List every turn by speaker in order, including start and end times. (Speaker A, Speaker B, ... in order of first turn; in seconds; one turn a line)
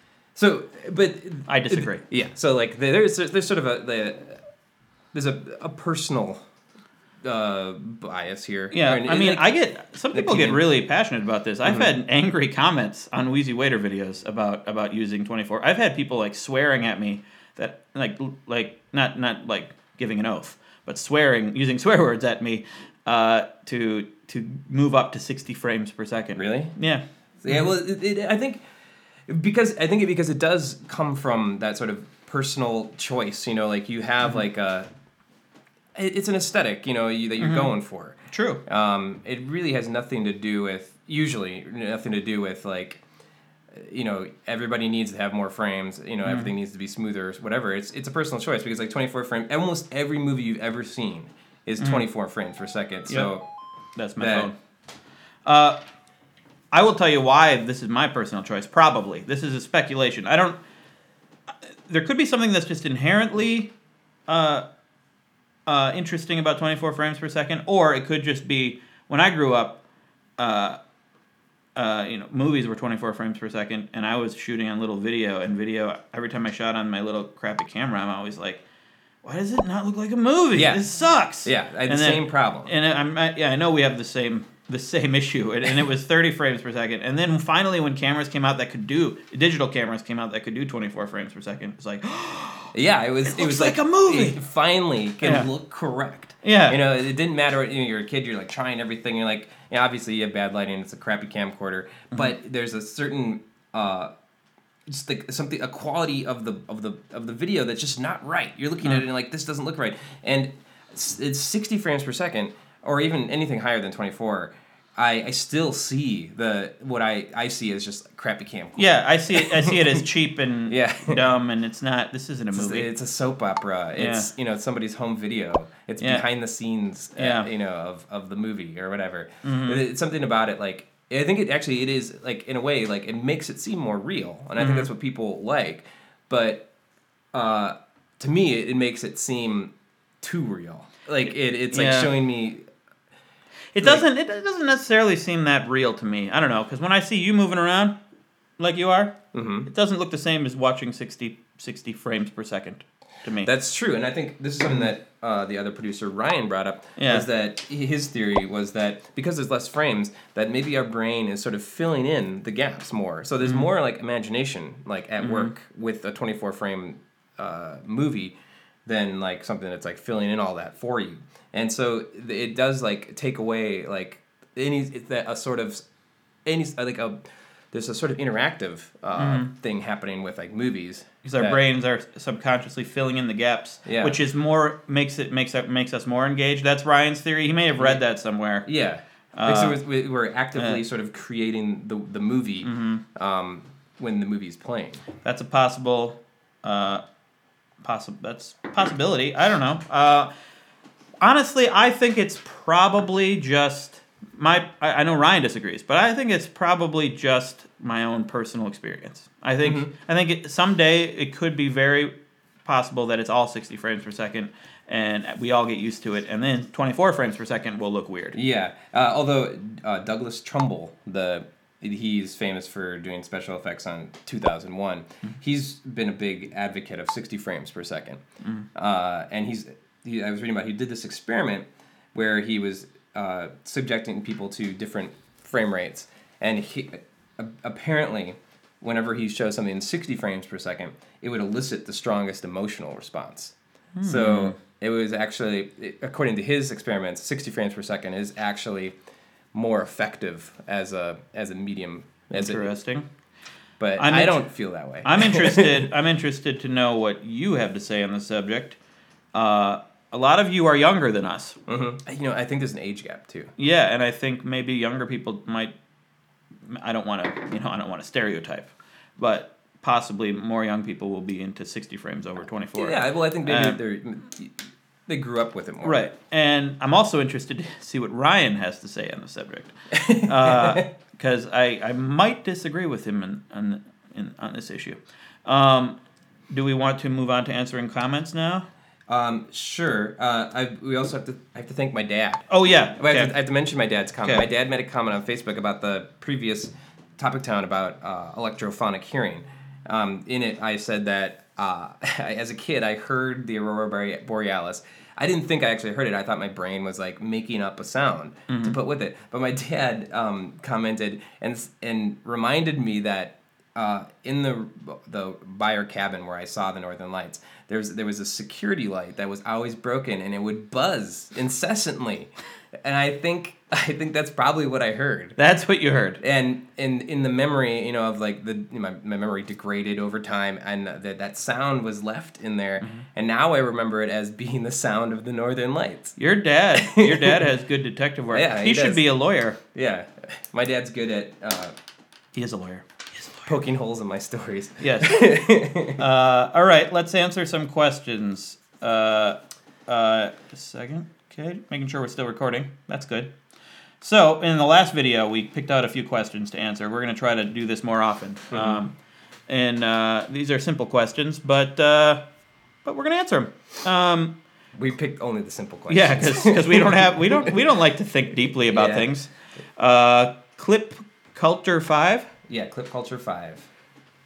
Speaker A: 0.3-4.4
Speaker B: 1.5-2.0
Speaker A: 5.1-6.4
Speaker A: 7.2-9.5
Speaker B: 8.7-27.6
Speaker A: 10.1-10.7
Speaker A: 11.6-11.9
Speaker A: 26.4-26.8
Speaker A: 27.4-28.6
Speaker A: 29.3-34.9
Speaker A: 36.0-43.0
Speaker B: 37.4-37.7
Speaker B: 38.3-38.6
Speaker A: 43.7-53.4
Speaker B: 46.3-46.5
Speaker B: 51.8-52.0
Speaker B: 54.0-54.5
Speaker A: 54.2-54.5
Speaker B: 55.5-55.8
Speaker B: 56.7-60.6
Speaker B: 61.9-63.7
Speaker B: 64.3-64.7
Speaker B: 65.7-69.8
Speaker B: 70.4-70.8
Speaker B: 71.8-78.6
Speaker B: 79.2-92.7
Speaker A: 80.5-80.8
Speaker A: 81.4-82.7
Speaker A: 92.7-104.1
Speaker B: 93.2-94.4
Speaker B: 95.2-95.5
Speaker B: 96.4-96.8
Speaker A: 104.9-120.0
Speaker B: 118.8-122.9
Speaker A: 120.7-121.3
Speaker A: 122.5-136.7
Speaker B: 124.0-124.3
Speaker B: 126.0-126.2
Speaker B: 127.2-127.5
Speaker B: 129.4-129.8
Speaker B: 134.6-134.9
Speaker A: 137.3-142.6
Speaker B: 141.7-142.2
Speaker B: 143.7-147.9
Speaker A: 143.8-144.1
Speaker B: 148.6-153.5
Speaker A: 149.3-149.7
Speaker A: 153.4-168.3
Speaker B: 157.0-157.3
Speaker B: 163.4-163.7
Speaker B: 165.2-165.5
Speaker A: 168.9-175.8
Speaker A: 176.5-177.2
Speaker A: 177.7-181.6
Speaker B: 179.2-179.5
Speaker B: 181.2-188.7
Speaker A: 183.9-184.2
Speaker A: 187.8-188.0
Speaker A: 188.7-195.0
Speaker B: 189.3-189.8
Speaker B: 190.6-190.8
Speaker B: 192.6-193.0
Speaker B: 195.2-197.0
Speaker B: 197.8-200.3
Speaker B: 201.2-212.1
Speaker A: 209.6-209.9
Speaker B: 212.7-218.4
Speaker A: 218.3-228.2
Speaker A: 228.8-248.9
Speaker B: 244.0-244.6
Speaker A: 249.5-252.7
Speaker B: 252.3-253.1
Speaker A: 253.8-255.9
Speaker B: 254.0-254.5
Speaker B: 255.0-258.8
Speaker B: 259.3-261.6
Speaker A: 261.7-263.5
Speaker B: 263.6-265.7
Speaker B: 266.7-273.8
Speaker A: 272.8-276.1
Speaker B: 275.8-286.0
Speaker A: 279.9-280.9
Speaker B: 286.5-288.6
Speaker A: 289.1-322.3
Speaker B: 292.5-293.3
Speaker B: 308.5-308.8
Speaker A: 322.8-325.4
Speaker B: 325.4-326.2
Speaker A: 326.2-336.2
Speaker B: 336.2-339.6
Speaker A: 336.8-337.5
Speaker A: 338.3-339.1
Speaker A: 339.7-341.8
Speaker B: 342.4-343.5
Speaker A: 343.5-346.0
Speaker B: 344.8-345.4
Speaker B: 346.0-353.3
Speaker B: 354.0-358.9
Speaker A: 358.5-358.8
Speaker B: 359.5-362.2
Speaker B: 362.9-364.3
Speaker A: 364.8-367.6
Speaker B: 365.9-372.3
Speaker A: 368.7-369.1
Speaker A: 372.5-373.7